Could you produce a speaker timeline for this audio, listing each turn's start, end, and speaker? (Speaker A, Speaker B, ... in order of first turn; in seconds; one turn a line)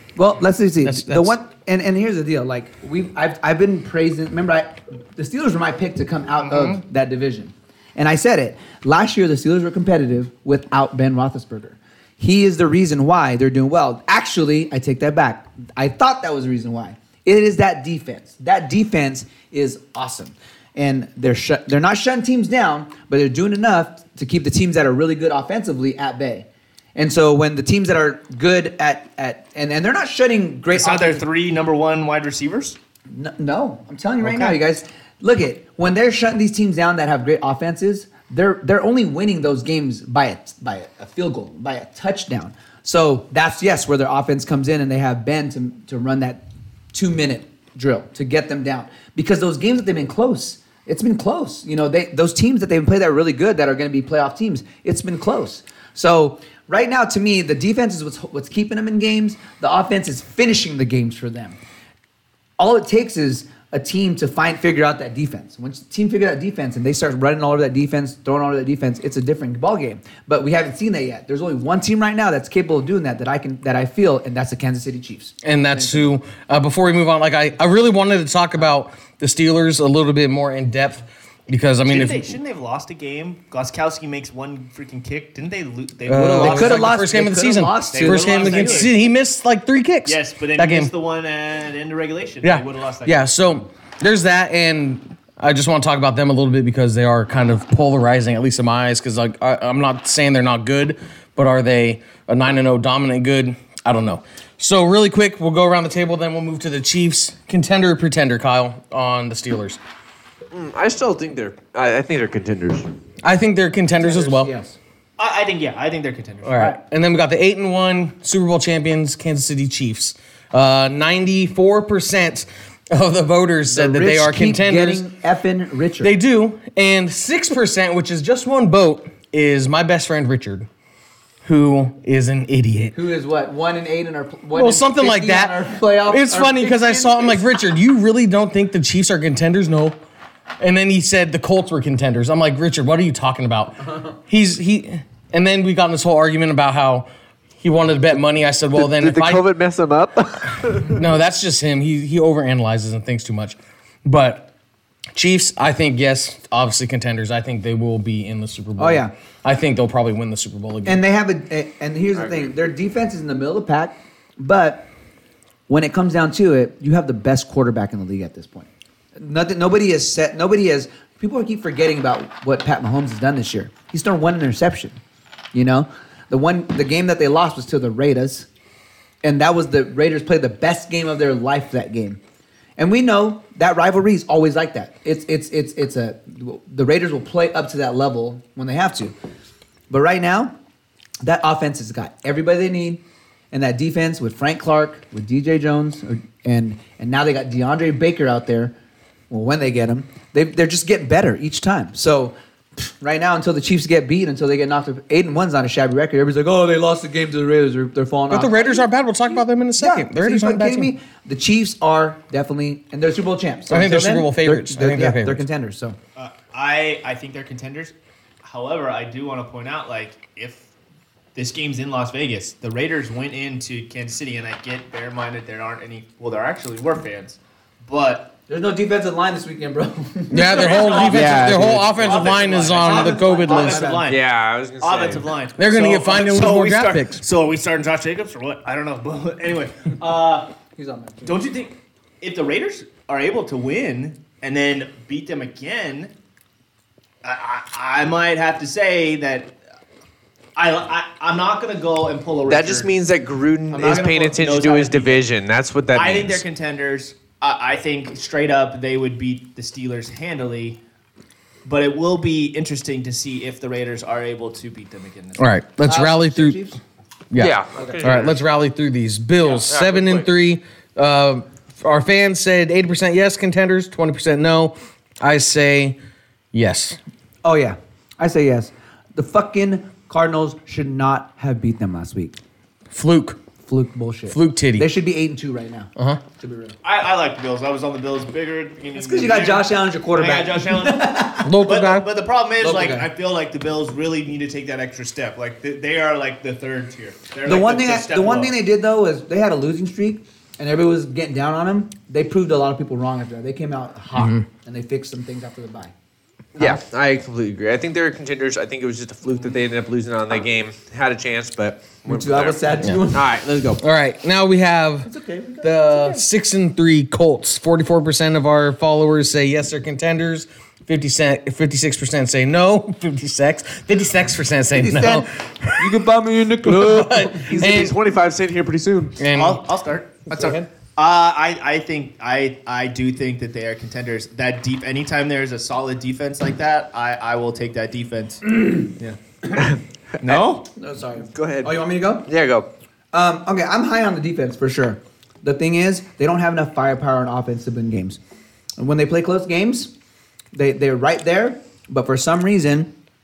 Speaker A: 0.2-31.2
Speaker B: 0.8-1.4
Speaker C: 30.7-32.8
Speaker A: 33.1-61.6
Speaker C: 34.2-34.6
Speaker A: 62.6-76.0
Speaker B: 75.4-82.4
Speaker C: 81.9-87.0
Speaker B: 86.1-90.9
Speaker A: 86.1-88.9
Speaker C: 87.9-88.9
Speaker C: 90.1-93.4
Speaker B: 92.4-109.8
Speaker D: 110.5-112.9
Speaker B: 113.2-114.5
Speaker A: 114.0-114.8
Speaker C: 115.2-116.7
Speaker B: 116.4-125.1
Speaker A: 123.7-126.1
Speaker B: 126.0-130.7
Speaker B: 131.4-132.9
Speaker A: 132.9-137.4
Speaker B: 134.5-140.0
Speaker B: 140.6-147.1
Speaker B: 147.6-149.4
Speaker D: 148.8-151.0
Speaker B: 150.8-154.5
Speaker B: 155.1-161.0
Speaker A: 158.8-159.1
Speaker A: 160.8-164.9
Speaker A: 165.7-175.0
Speaker A: 175.5-178.5
Speaker A: 179.2-182.2
Speaker A: 182.8-189.1
Speaker A: 189.9-190.5
Speaker A: 191.2-198.7
Speaker A: 199.3-208.8
Speaker B: 208.3-210.9
Speaker A: 209.8-216.0
Speaker B: 213.7-215.4
Speaker C: 216.2-220.7
Speaker C: 221.3-228.3
Speaker A: 228.5-231.4
Speaker B: 230.3-233.9
Speaker C: 230.4-234.3
Speaker D: 230.9-232.1
Speaker A: 232.8-234.1
Speaker D: 234.1-235.3
Speaker C: 234.8-240.5
Speaker B: 235.6-237.2
Speaker A: 240.8-241.3
Speaker C: 241.2-246.1
Speaker C: 247.2-249.6
Speaker C: 250.6-252.9
Speaker D: 252.5-256.4
Speaker C: 253.7-255.3
Speaker C: 255.9-260.8
Speaker C: 261.6-265.4
Speaker B: 265.4-266.6
Speaker A: 265.8-266.8
Speaker B: 267.3-276.0
Speaker D: 267.4-268.4
Speaker D: 269.4-270.3
Speaker B: 276.5-277.0
Speaker A: 277.4-282.4
Speaker B: 282.9-283.4
Speaker A: 283.7-286.8
Speaker B: 284.3-284.9
Speaker B: 286.0-286.2
Speaker C: 286.8-298.6
Speaker A: 289.0-291.5
Speaker B: 291.4-292.1
Speaker A: 292.6-293.1
Speaker A: 297.5-305.9
Speaker B: 304.2-304.4
Speaker D: 306.6-313.8
Speaker A: 312.1-313.3
Speaker B: 313.8-315.1
Speaker A: 315.1-316.2
Speaker B: 315.6-326.0
Speaker A: 324.7-327.9
Speaker B: 326.6-327.9
Speaker D: 327.5-329.2
Speaker B: 329.2-329.6
Speaker C: 329.4-339.2
Speaker B: 330.3-330.7
Speaker D: 339.5-340.4
Speaker C: 340.2-340.7
Speaker A: 340.8-342.3
Speaker D: 341.3-342.7
Speaker A: 343.1-348.2
Speaker A: 348.8-349.9
Speaker A: 350.5-352.9